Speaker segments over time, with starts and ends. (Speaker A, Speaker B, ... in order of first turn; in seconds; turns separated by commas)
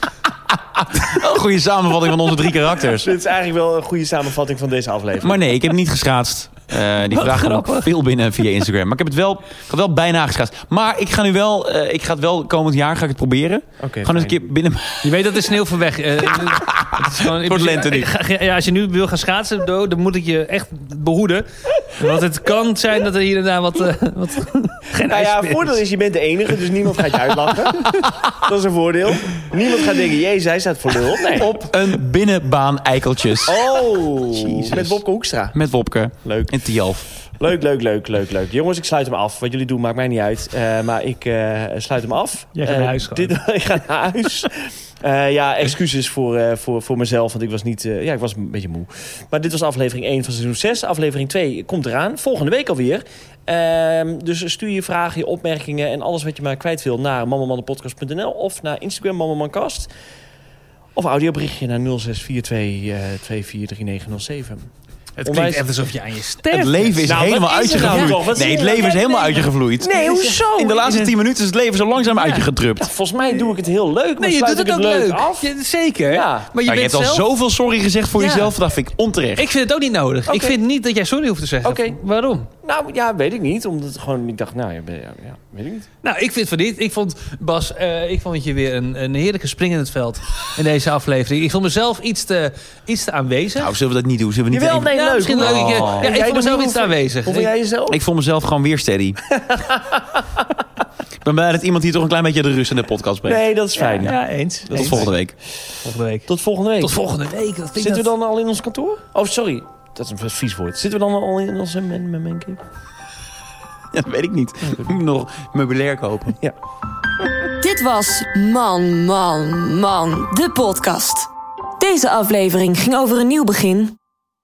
Speaker A: 0.6-3.1, Speaker B: 3.0-5.5, Speaker A: 5.2-15.3, Speaker C: 7.1-7.9, Speaker B: 13.8-14.4, Speaker C: 15.0-25.8, Speaker A: 16.3-18.1, Speaker B: 25.1-31.6, Speaker A: 28.0-28.3, Speaker A: 31.3-35.0, Speaker B: 33.5-35.6, Speaker A: 35.5-37.1, Speaker B: 36.2-36.6, Speaker B: 37.4-59.9, Speaker C: 42.5-43.3, Speaker B: 61.0-64.7, Speaker C: 65.2-68.2, Speaker B: 65.2-65.6, Speaker A: 66.5-72.9, Speaker B: 67.0-71.0, Speaker C: 70.2-71.1, Speaker C: 72.1-72.5, Speaker B: 72.8-75.5, Speaker C: 74.2-77.3, Speaker B: 76.1-76.5, Speaker A: 76.6-79.5, Speaker C: 78.2-78.5, Speaker C: 79.4-82.5, Speaker B: 80.3-80.6, Speaker B: 81.6-82.0, Speaker B: 82.6-85.9, Speaker C: 86.0-93.7, Speaker A: 93.6-96.1, Speaker B: 94.5-98.0, Speaker C: 94.9-97.5, Speaker A: 97.9-99.2, Speaker A: 101.2-103.4, Speaker B: 103.3-104.2, Speaker C: 104.0-105.1, Speaker B: 104.7-105.1, Speaker A: 104.7-105.3, Speaker C: 105.8-106.3, Speaker B: 106.3-107.0, Speaker C: 106.8-108.1, Speaker B: 107.8-112.6, Speaker A: 113.9-116.4, Speaker D: 117.6-124.0